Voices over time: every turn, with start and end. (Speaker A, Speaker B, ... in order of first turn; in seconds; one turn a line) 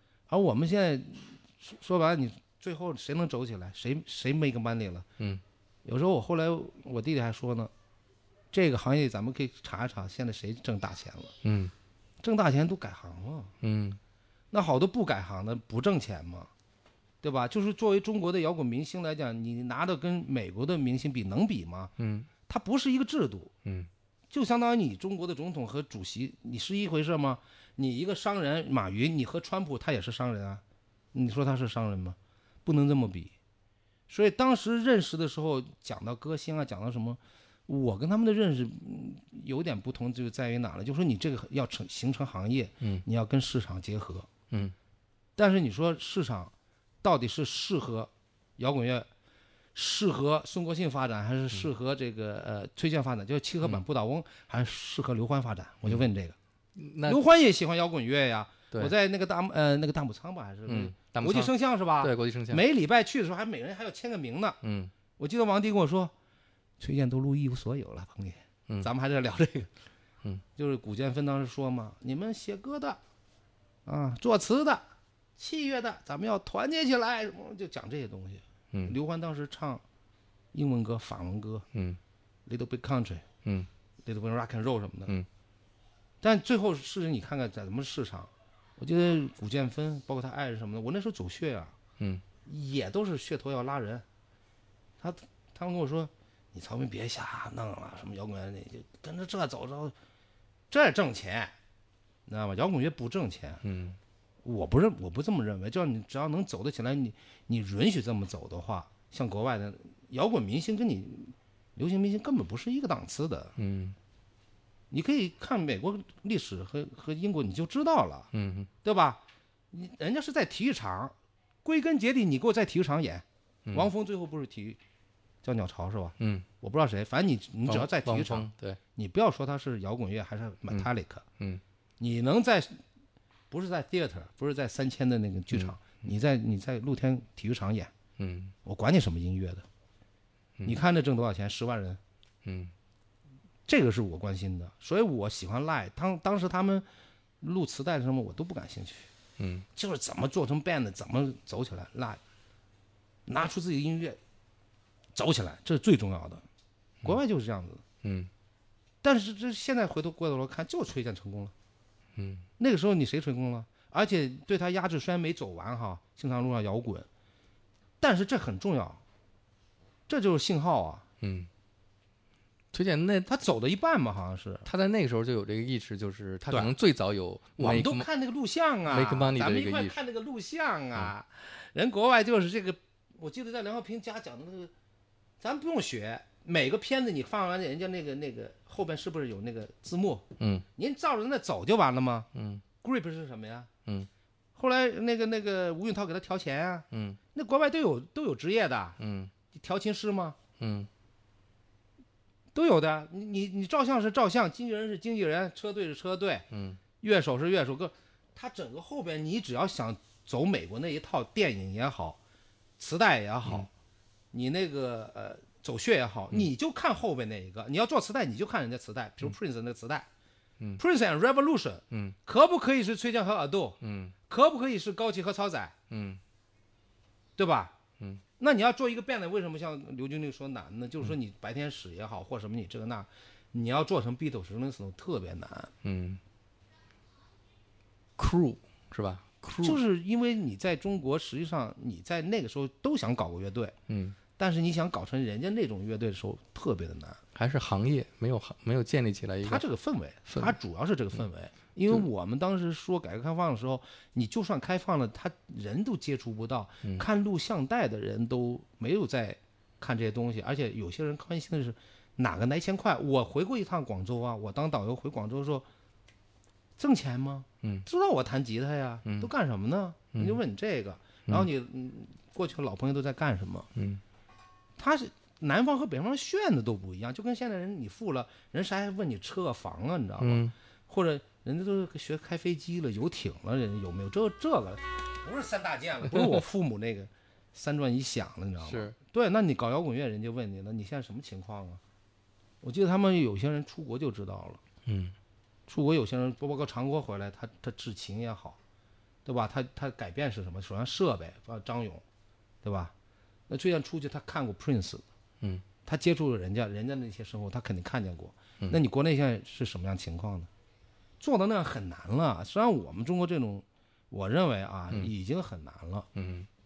Speaker A: 0.3-5.1
Speaker A: 5.8-7.7
Speaker A: 8.5-11.3
Speaker B: 11.4-11.7
Speaker A: 12.2-13.5
Speaker B: 13.6-14.0
Speaker A: 14.5-16.5
Speaker A: 17.2-21.9
Speaker B: 22.0-22.3
Speaker A: 22.5-23.5
Speaker A: 24.3-30.6
Speaker A: 31.1-33.3
Speaker A: 34.1-44.3
Speaker A: 45.4-49.1
Speaker A: 49.7-56.4
Speaker B: 56.8-57.2
Speaker A: 57.1-64.6
Speaker B: 60.7-62.6
Speaker B: 64.6-64.9
Speaker A: 65.2-66.1
Speaker A: 66.8-69.7
Speaker A: 70.6-73.0
Speaker A: 73.9-74.9
Speaker A: 75.4-79.8
Speaker A: 80.5-81.7
Speaker B: 81.7-82.0
Speaker A: 82.5-83.3
Speaker A: 84.0-85.2
Speaker A: 86.2-91.8
Speaker B: 92.0-92.2
Speaker A: 92.5-94.0
Speaker A: 95.0-100.0
Speaker A: 100.7-101.5
Speaker A: 102.3-103.6
Speaker B: 103.6-104.0
Speaker A: 104.4-113.5
Speaker B: 113.6-114.0
Speaker A: 114.9-118.3
Speaker B: 118.3-118.7
Speaker A: 118.8-124.8
Speaker A: 125.4-131.2
Speaker B: 126.2-126.5
Speaker B: 127.7-128.8
Speaker A: 132.0-132.8
Speaker A: 133.5-137.9
Speaker B: 135.5-135.9
Speaker B: 138.2-138.5
Speaker A: 138.7-139.7
Speaker A: 140.7-142.0
Speaker B: 142.4-142.7
Speaker A: 143.7-146.9
Speaker A: 147.4-149.1
Speaker B: 149.4-149.7
Speaker A: 149.8-152.2
Speaker A: 153.3-154.2
Speaker A: 155.2-156.4
Speaker A: 157.0-157.8
Speaker B: 158.0-158.3
Speaker A: 159.0-161.5
Speaker B: 162.2-162.5
Speaker A: 162.6-167.1
Speaker A: 168.0-169.0
Speaker A: 170.1-171.1
Speaker B: 171.2-171.5
Speaker B: 172.7-173.3
Speaker A: 173.3-174.7
Speaker B: 174.7-178.1
Speaker A: 177.6-184.7
Speaker B: 178.9-180.0
Speaker A: 185.4-192.3
Speaker B: 190.4-190.7
Speaker B: 192.3-192.6
Speaker A: 192.8-193.7
Speaker A: 194.6-199.0
Speaker B: 196.9-197.2
Speaker B: 199.0-199.3
Speaker A: 199.5-200.4
Speaker B: 200.6-200.9
Speaker A: 202.5-206.5
Speaker B: 206.5-206.8
Speaker A: 207.0-212.2
Speaker A: 212.8-213.7
Speaker A: 214.3-220.1
Speaker A: 220.8-225.8
Speaker B: 221.9-222.2
Speaker B: 223.8-224.2
Speaker B: 225.9-226.2
Speaker A: 227.4-227.8
Speaker A: 228.4-235.7
Speaker B: 235.8-236.2
Speaker B: 238.2-239.8
Speaker A: 239.6-243.8
Speaker B: 243.9-244.2
Speaker A: 244.4-247.2
Speaker B: 247.3-249.6
Speaker A: 249.4-265.7
Speaker B: 250.3-250.6
Speaker A: 266.8-273.7
Speaker B: 269.1-269.3
Speaker B: 270.1-270.4
Speaker B: 273.8-274.0
Speaker A: 274.8-291.8
Speaker B: 280.2-280.5
Speaker B: 288.6-289.0
Speaker A: 292.6-294.6
Speaker B: 294.9-295.1
Speaker A: 295.7-298.6
Speaker A: 299.2-302.0
Speaker A: 302.6-302.9
Speaker A: 303.5-305.1
Speaker A: 305.9-310.5
Speaker A: 311.2-316.1
Speaker B: 316.1-316.5